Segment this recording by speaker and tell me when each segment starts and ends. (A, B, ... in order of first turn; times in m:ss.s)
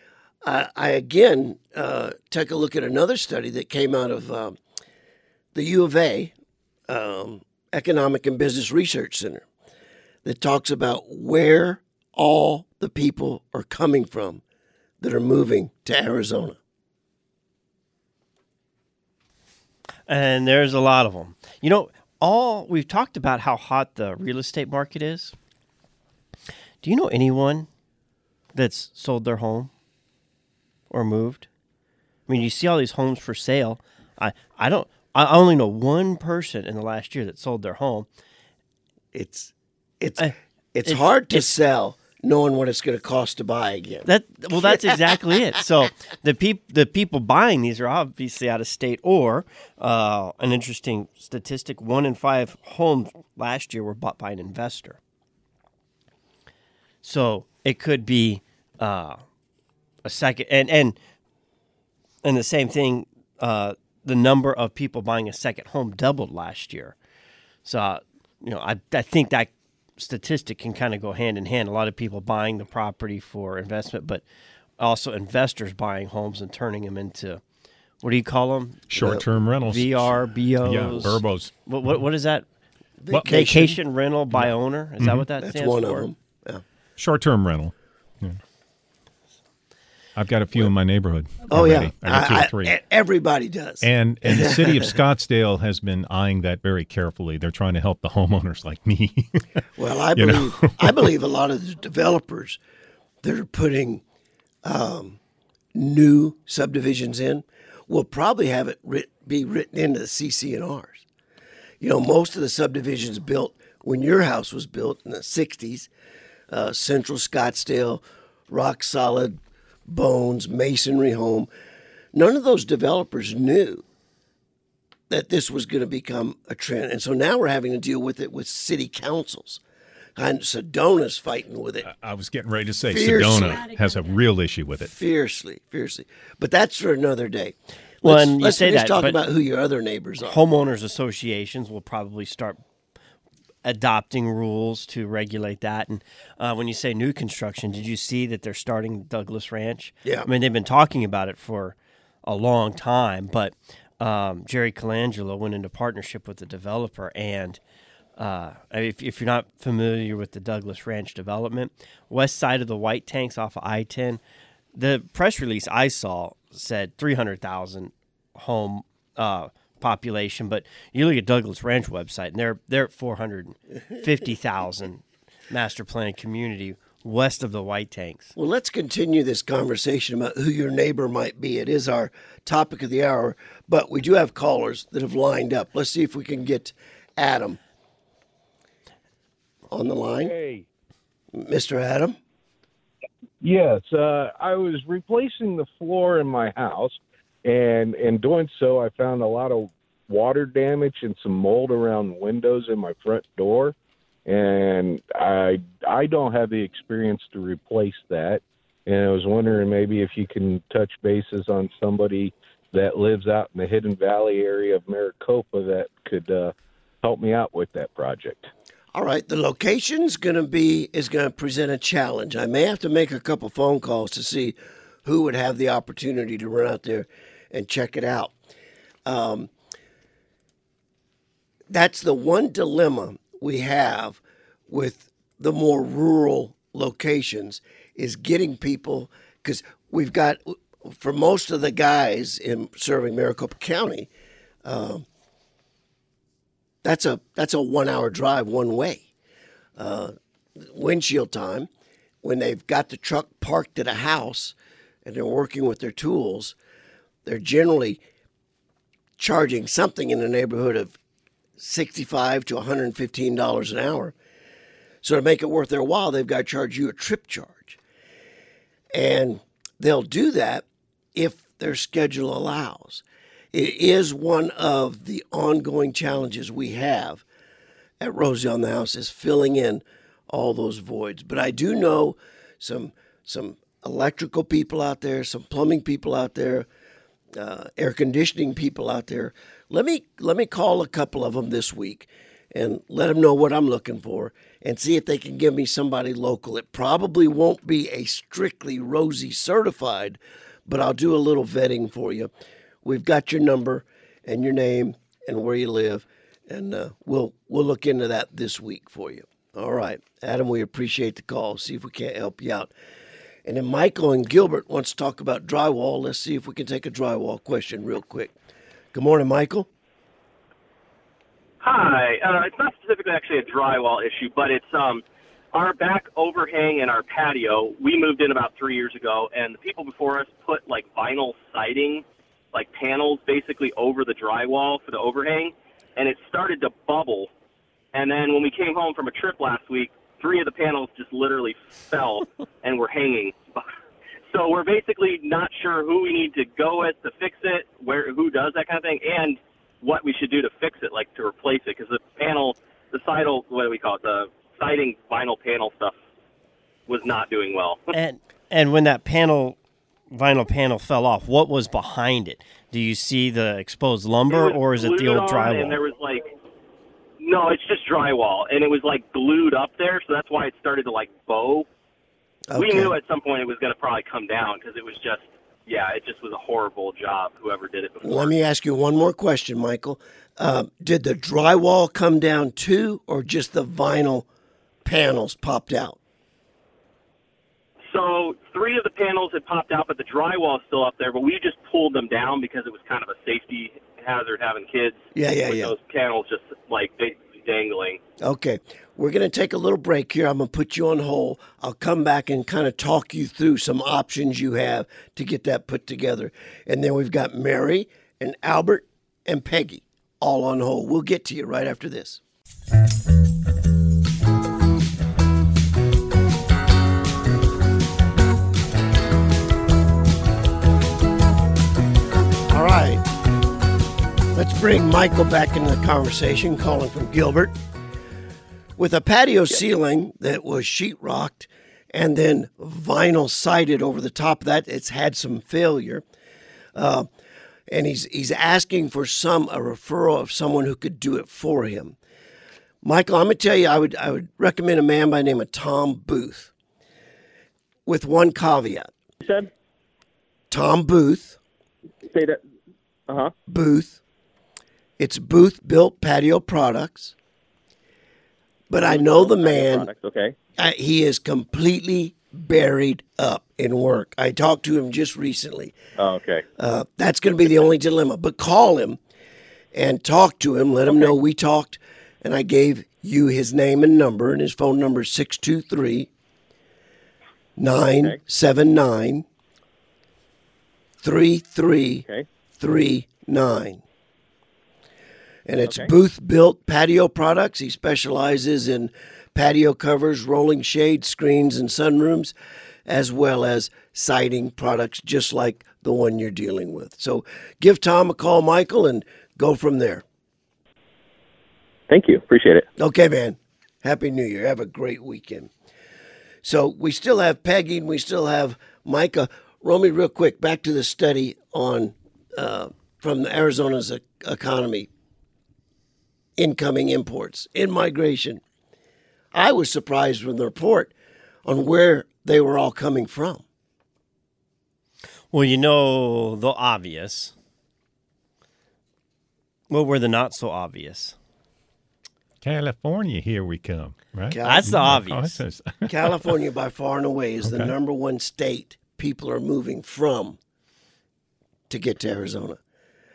0:00.4-0:04.6 A
0:05.5-0:06.3 A
0:06.9-0:09.5 A
0:10.2-0:14.4 A
0:15.0-0:16.6 A
0:20.1-0:25.4 B
0:26.8-0:27.7 B
0:28.6-0:29.7 B
0:30.9-0:31.5 B
0:32.3-0:38.1 B
0:39.1-0:45.4 A
0:40.2-0:41.5 B
0:44.1-0:55.0 B
0:57.0-0:59.2 B
1:00.0-1:01.0 B
1:02.2-1:07.0 B
1:07.6-1:14.2 B
1:14.8-1:17.4 B
1:18.0-1:19.0 B
1:18.9-1:20.1 C
1:19.6-1:22.4 B
1:20.6-1:21.5 C
1:23.0-1:23.8 A
1:23.1-1:26.1 B
1:24.4-1:25.2 C
1:25.4-1:26.6 A
1:27.0-1:28.4 C
1:30.2-1:32.7 C
1:31.5-1:35.0 A
1:33.8-1:39.4 C
1:39.8-1:42.6 A
1:40.2-1:41.0 C
1:43.2-1:44.0 A
1:44.6-1:45.2 A
1:45.7-1:51.0 A
1:51.8-1:55.9 A
1:56.5-2:01.5 A
2:02.1-2:03.8 A
2:05.1-2:09.6 A
2:10.2-2:11.9 A
2:11.9-2:14.9 C
2:12.9-2:13.6 A
2:14.8-2:20.4 A
2:18.0-2:19.2 B
2:20.2-2:22.6 B
2:23.6-2:37.6 B
2:30.0-2:30.3 A
2:38.2-2:44.2 B
2:44.8-2:58.3 B
2:58.4-3:07.6 A
3:09.7-3:10.3 A
3:10.2-3:10.7 D
3:11.3-3:12.2 A
3:13.4-3:38.5 D
3:38.9-3:48.3 A
3:49.0-3:49.5 A
3:51.7-4:04.1 A
4:04.6-4:05.1 A
4:06.8-4:09.1 A
4:09.8-4:11.7 A
4:12.2-4:16.6 A
4:17.2-4:18.0 A
4:19.2-4:21.0 A
4:21.6-4:24.2 A
4:25.0-4:27.8 A
4:28.9-4:37.2 A
4:38.0-4:46.7 A
4:47.4-5:02.3 A
5:02.8-5:12.7 A
5:13.4-5:18.3 A
5:18.9-5:19.7 A
5:21.6-5:37.3 E
5:37.9-5:43.7 E
5:44.3-5:55.9 E
5:56.9-5:57.8 E
5:57.9-5:59.6 B
6:00.1-6:05.8 B
6:04.3-6:06.3 E
6:07.2-6:11.7 E
6:12.5-6:13.0 A
6:12.6-6:18.3 E
6:18.0-6:24.3 A
6:24.8-6:26.0 A
6:27.9-6:38.0 E
6:35.2-6:35.7 A
6:38.2-6:52.2 A
7:02.5-7:03.0 A
7:04.3-7:07.6 A
7:08.8-7:16.0 A
7:16.8-7:17.1 A
7:17.7-7:22.0 A
7:22.8-7:26.5 A
7:27.9-7:28.9 A
7:29.2-7:29.5 F
7:30.5-7:31.4 A
7:32.1-7:32.4 F
7:33.5-7:34.0 A
7:35.0-7:37.2 A
7:38.7-7:39.9 A
7:38.8-7:40.4 F
7:40.6-7:45.8 A
7:46.0-7:46.4 F
7:46.6-7:49.0 A
7:49.7-7:56.1 A
7:57.6-7:59.3 A
8:01.0-8:02.1 A
8:02.6-8:03.8 A
8:05.5-8:12.3 A
8:12.9-8:20.0 A
8:21.9-8:22.7 F
8:22.8-8:25.5 A
8:26.4-8:34.9 A
8:36.4-8:38.4 A
8:39.3-8:40.9 A
8:41.4-8:43.4 A
8:45.3-8:47.3 B
8:49.7-8:51.2 B
8:52.4-8:55.9 C
8:54.3-8:54.9 A
8:54.4-8:55.4 B
8:55.9-9:00.4 A
8:57.4-8:57.7 C
9:01.7-9:02.6 A